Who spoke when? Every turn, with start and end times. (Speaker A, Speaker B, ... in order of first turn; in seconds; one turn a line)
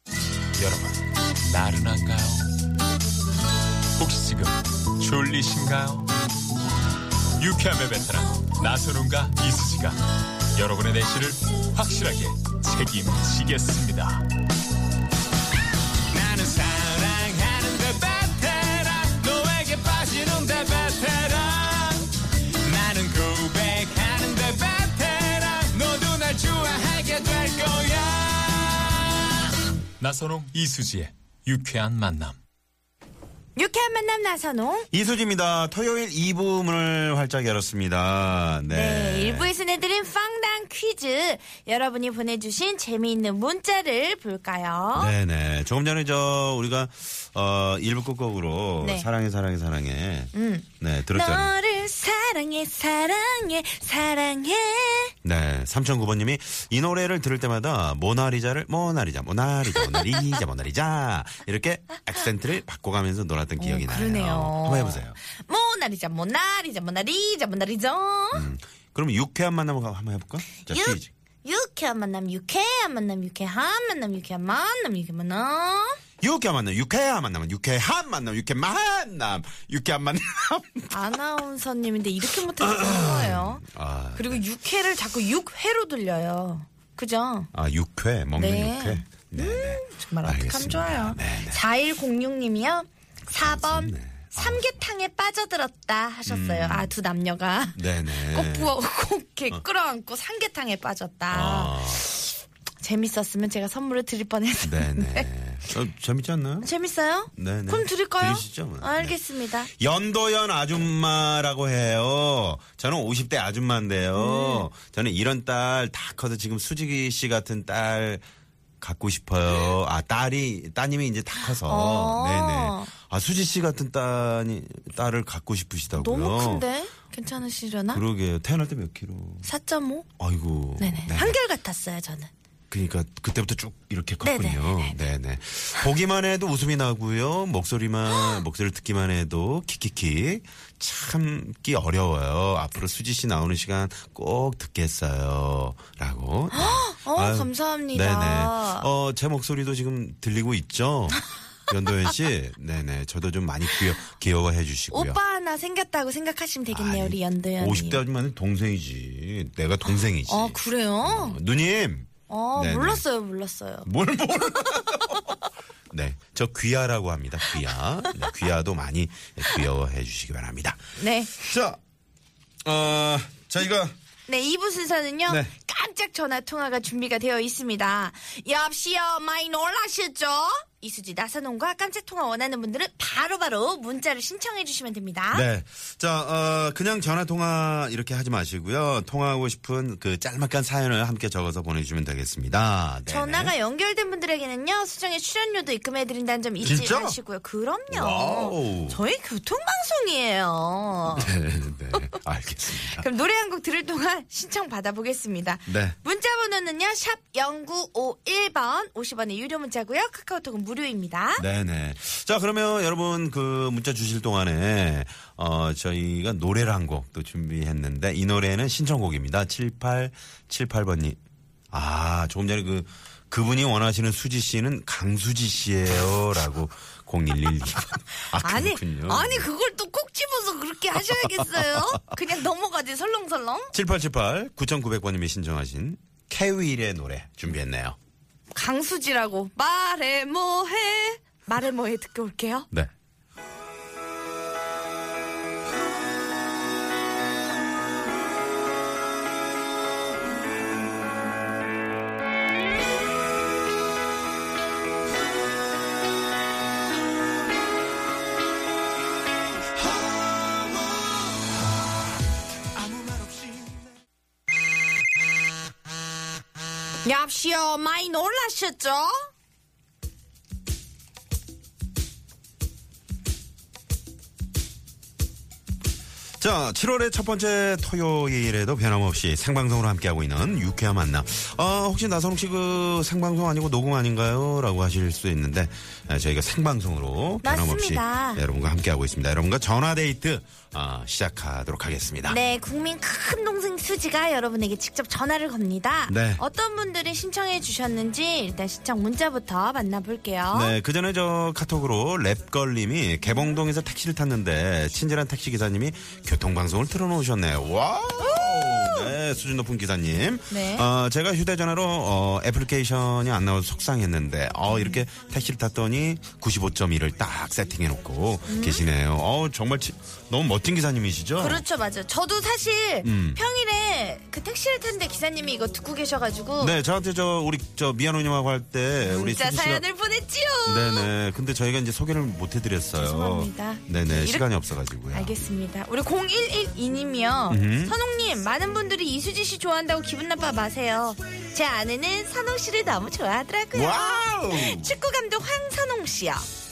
Speaker A: 0.6-0.9
Speaker A: 1.4-2.5
Speaker A: 4.0-6.1
Speaker A: 7.4-10.0
Speaker A: 10.5-14.2
Speaker A: 16.1-22.1
Speaker A: 22.6-29.4
Speaker A: 30.0-32.4
Speaker B: 33.5-34.9
Speaker C: 34.9-39.5
Speaker B: 38.7-45.1
Speaker C: 44.9-51.5
Speaker B: 48.8-49.1
Speaker B: 50.3-55.1
Speaker C: 55.2-65.2
Speaker B: 59.8-60.1
Speaker B: 63.6-68.5
Speaker C: 68.3-71.1
Speaker B: 70.7-76.0
Speaker C: 76.2-81.0
Speaker B: 80.9-83.6
Speaker C: 82.6-84.4
Speaker B: 84.1-87.5
Speaker C: 87.5-91.6
Speaker B: 88.3-105.3
Speaker C: 93.3-94.8
Speaker C: 96.2-96.9
Speaker C: 97.7-98.8
Speaker C: 101.3-102.1
Speaker C: 104.6-106.7
Speaker B: 106.6-109.7
Speaker C: 107.3-109.2
Speaker C: 109.7-118.2
Speaker B: 114.1-114.7
Speaker C: 118.8-126.7
Speaker B: 121.6-122.9
Speaker B: 126.0-128.0
Speaker C: 127.9-129.5
Speaker B: 129.4-130.1
Speaker C: 130.2-131.3
Speaker B: 130.8-132.3
Speaker C: 132.7-155.2
Speaker B: 134.2-135.0
Speaker B: 138.1-138.4
Speaker B: 146.5-148.9
Speaker B: 154.9-158.0
Speaker C: 156.7-163.0
Speaker B: 160.2-161.4
Speaker B: 162.3-163.9
Speaker C: 163.8-165.3
Speaker C: 165.9-170.8
Speaker B: 167.5-168.4
Speaker B: 171.0-171.3
Speaker C: 171.3-171.8
Speaker C: 172.6-173.9
Speaker B: 174.3-185.5
Speaker C: 185.3-193.5
Speaker B: 193.1-201.3
Speaker C: 196.6-197.2
Speaker C: 197.9-199.0
Speaker C: 201.2-203.1
Speaker B: 202.8-211.4
Speaker C: 205.7-205.9
Speaker C: 211.4-221.2
Speaker C: 221.7-229.5
Speaker B: 228.3-233.7
Speaker C: 231.2-232.0
Speaker C: 233.7-237.9
Speaker B: 238.5-242.7
Speaker B: 267.0-269.3
Speaker C: 276.4-292.4
Speaker B: 287.4-288.4
Speaker B: 292.2-300.8
Speaker C: 296.1-296.4
Speaker C: 300.5-321.6
Speaker B: 308.2-309.1
Speaker B: 310.5-310.9
Speaker B: 314.7-315.0
Speaker B: 318.5-318.8
Speaker B: 321.4-326.7
Speaker C: 323.0-323.4
Speaker C: 326.6-329.8
Speaker B: 329.0-331.1
Speaker C: 330.6-335.4
Speaker B: 332.9-334.5
Speaker B: 335.1-346.5
Speaker C: 337.5-338.0
Speaker C: 343.7-345.0